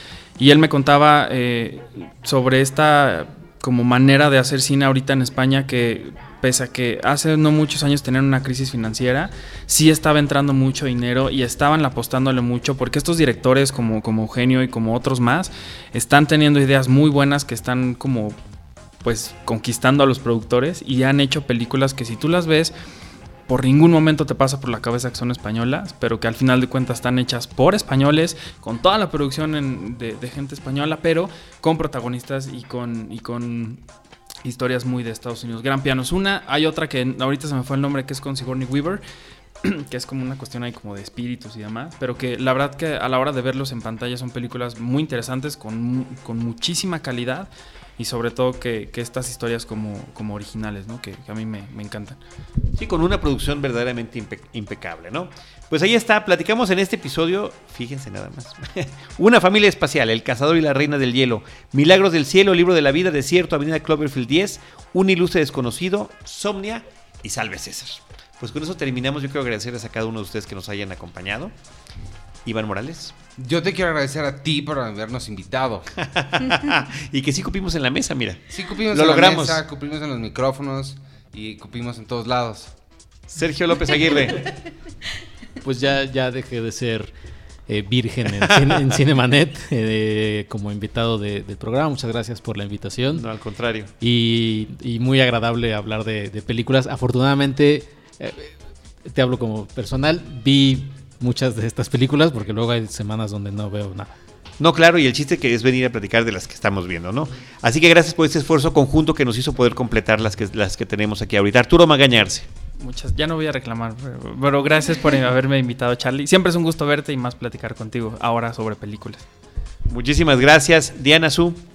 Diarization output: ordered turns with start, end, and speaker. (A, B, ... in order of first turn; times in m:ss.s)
0:00.4-0:18.4 A
0:19.0-0:22.7 A
0:23.5-0:33.8 A
0:34.4-0:39.0 A
0:39.6-0:52.2 A
0:52.7-1:11.5 B
1:12.4-1:13.1 B
1:13.4-1:15.9 C
1:16.0-1:19.6 B
1:18.5-1:22.7 C
1:23.3-1:24.4 B
1:25.6-1:27.1 D
1:27.7-1:33.2 D
1:28.4-1:28.8 B
1:33.1-1:33.9 B
1:34.0-1:38.6 D
1:39.1-1:44.1 D
1:44.6-1:52.5 B
1:52.8-1:59.2 A
1:59.9-2:01.6 B